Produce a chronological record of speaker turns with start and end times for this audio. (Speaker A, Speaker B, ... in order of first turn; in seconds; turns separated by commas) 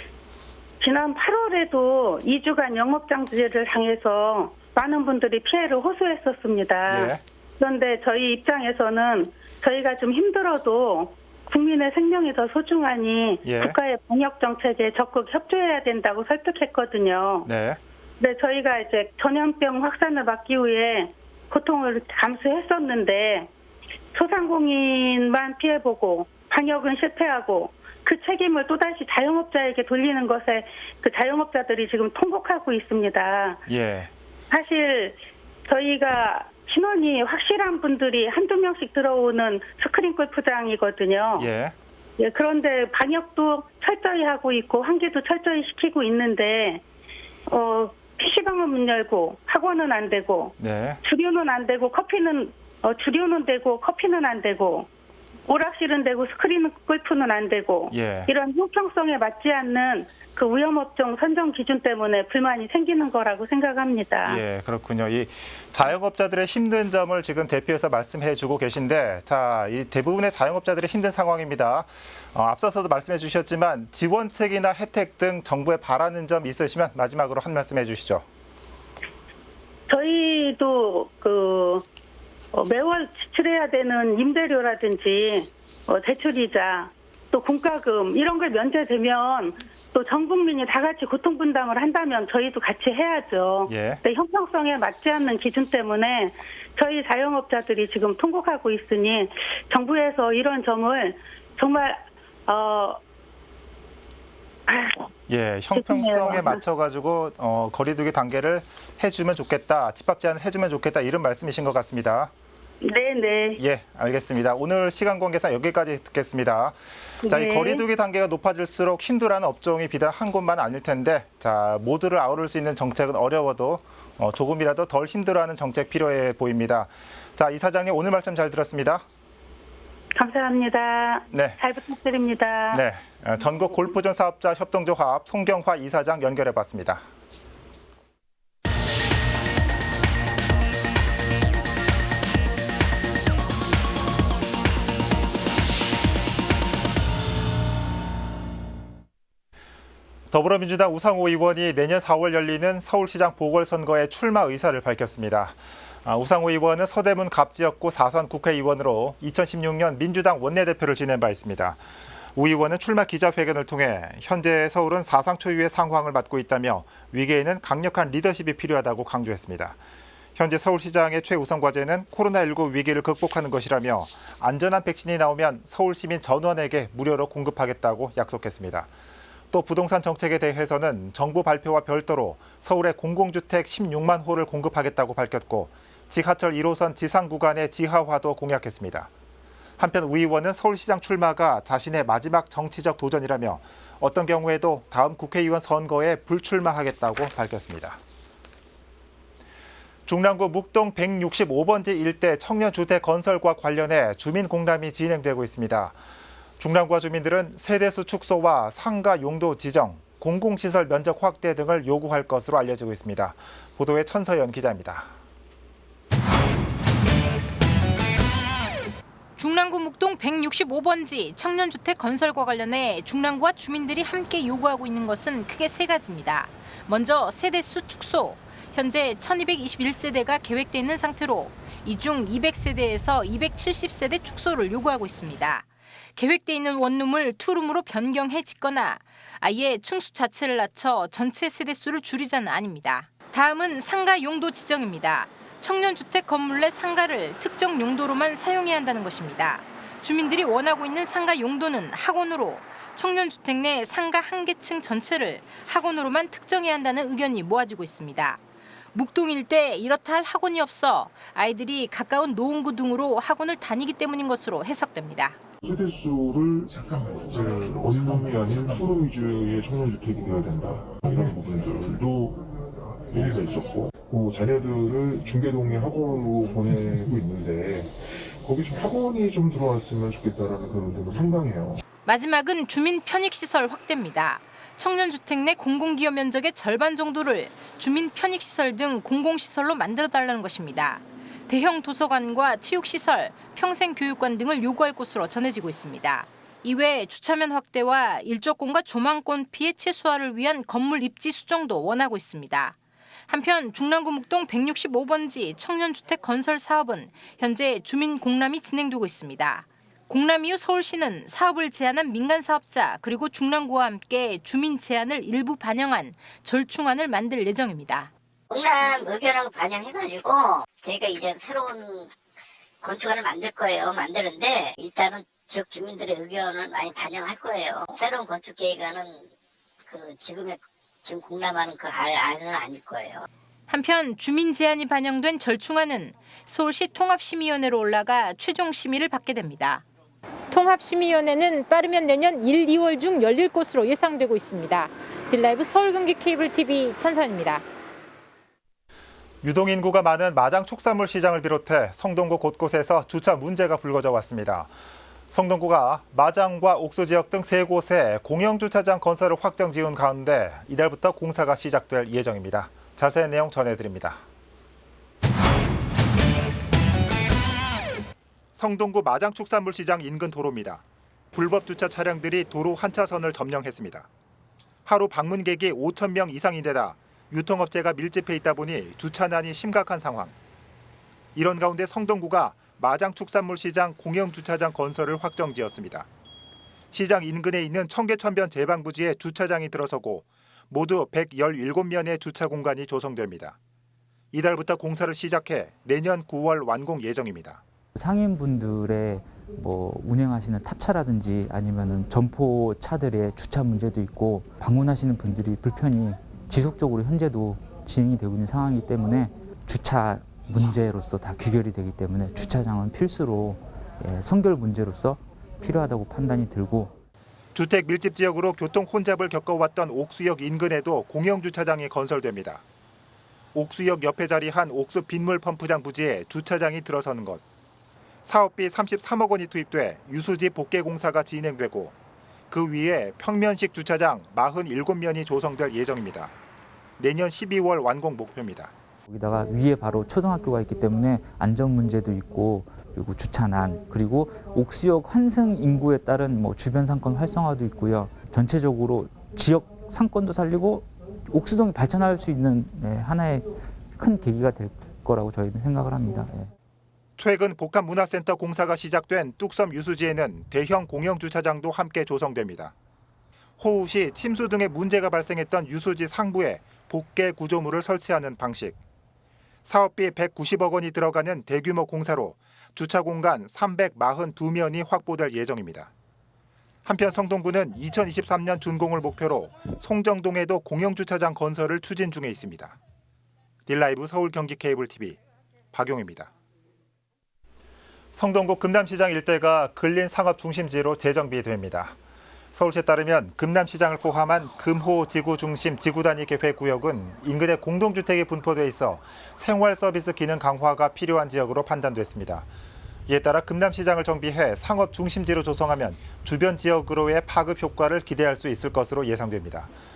Speaker A: 0.8-17.5, Speaker B: 6.9-7.2, Speaker B: 13.4-13.8, Speaker B: 17.4-17.8, Speaker A: 18.2-23.5, Speaker A: 24.1-33.6, Speaker B: 33.7-34.1, Speaker A: 34.5-41.5, Speaker B: 41.4-41.7, Speaker A: 42.2-46.8, Speaker A: 47.5-54.9, Speaker B: 50.6-51.0, Speaker A: 55.5-64.4, Speaker B: 57.9-58.3, Speaker B: 64.2-78.2, Speaker A: 79.9-81.8, Speaker A: 82.5-103.0, Speaker B: 93.7-94.0, Speaker A: 104.7-105.1, Speaker B: 105.3-112.3, Speaker A: 105.7-106.6, Speaker A: 112.8-113.6, Speaker B: 113.6-129.0, Speaker A: 117.2-117.8, Speaker A: 130.2-132.8, Speaker B: 131.3-131.6, Speaker B: 132.7-137.0, Speaker B: 150.3-161.8, Speaker B: 162.3-169.8, Speaker B: 170.3-178.9, Speaker B: 179.5-189.1, Speaker B: 189.8-198.0, Speaker B: 200.1-206.0, Speaker B: 206.6-215.1, Speaker C: 219.3-258.4, Speaker C: 258.9-265.4, Speaker D: 265.6-272.5, Speaker D: 273.1-281.8, Speaker C: 282.1-302.8, Speaker C: 303.3-318.1, Speaker E: 318.5-322.1, Speaker E: 322.8-329.3, Speaker E: 329.9-333.2, Speaker C: 333.7-339.9, Speaker C: 340.5-347.6, Speaker B: 349.4-354.7, Speaker B: 355.3-364.2, Speaker B: 368.5-374.1, Speaker B: 374.9-380.3, Speaker B: 381.3-386.1, Speaker B: 386.9-393.6, Speaker B: 394.3-397.6, Speaker F: 397.9-416.9, Speaker B: 417.5-422.6, Speaker B: 423.5-427.4, Speaker B: 428.2-431.9, Speaker B: 432.5-436.3, Speaker B: 437.0-438.7, Speaker F: 439.1-456.5, Speaker B: 457.2-462.7, Speaker B: 463.6-468.8, Speaker B: 469.6-475.9, Speaker B: 476.8-482.8, Speaker B: 483.7-485.2, Speaker B: 485.7-486.3, Speaker B: 488.1-491.9, Speaker B: 492.5-502.5, Speaker B: 503.1-509.7